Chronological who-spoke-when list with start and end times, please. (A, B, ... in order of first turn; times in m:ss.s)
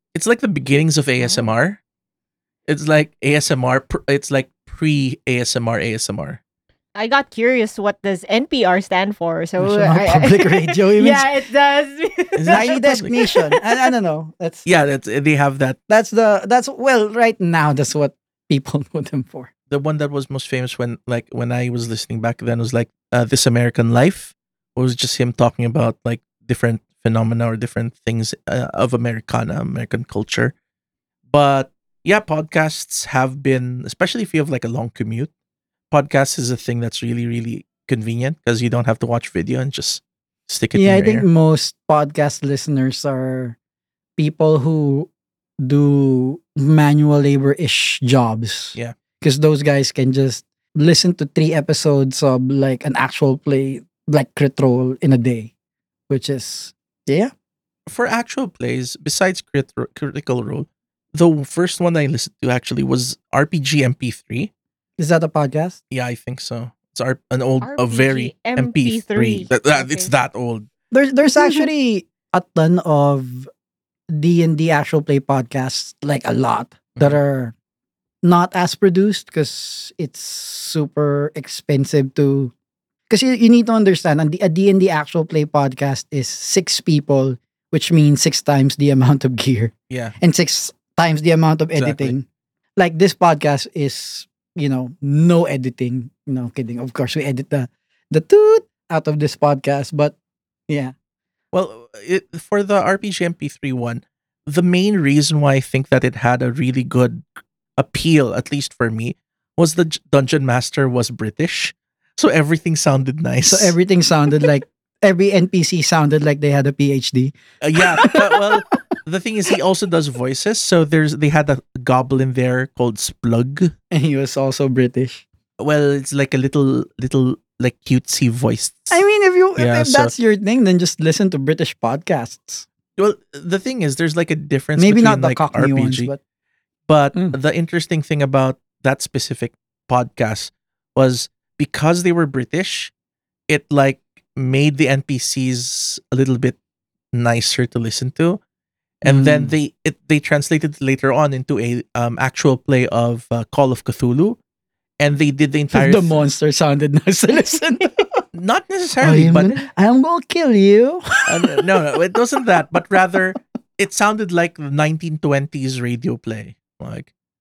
0:00.1-0:01.8 A
0:01.2-0:01.5 B
0:02.7-0:06.4 A
0:06.9-0:13.9 B
0:09.6-0:11.3 C
0:12.4-0:13.2 A
0:12.5-0:14.6 C
0:14.6-0:15.8 A
0:15.9-0:19.5 C
0:19.7-0:30.5 A
0:31.3-0:35.3 A
0:35.9-0:41.3 A
0:40.7-0:43.6 C
0:44.2-0:55.5 C
0:56.1-0:57.3 C
0:57.9-1:04.5 A
1:05.0-1:05.8 C
1:05.9-1:10.7 A
1:07.6-1:10.1 B
1:10.9-1:13.5 C
1:14.1-1:17.5 C
1:18.2-1:22.5 C
1:23.1-1:32.2 C
1:29.9-1:30.1 A
1:31.8-1:32.1 A
1:32.8-1:40.1 C
1:40.7-1:40.9 C
1:41.5-1:47.2 A
1:47.8-1:53.7 A
1:53.4-1:58.6 C
1:57.6-2:03.7 A
2:03.9-2:05.2 C
2:05.6-2:09.0 A
2:08.9-2:12.6 C
2:09.6-2:10.1 A
2:13.0-2:16.1 A
2:14.8-2:16.2 C
2:16.9-2:22.9 A
2:23.5-2:26.6 A
2:27.1-2:28.4 A
2:29.0-2:34.4 A
2:29.0-2:29.5 C
2:35.0-2:36.2 A
2:35.7-2:38.2 C
2:38.3-2:39.6 A
2:39.0-2:41.9 C
2:41.3-2:47.1 A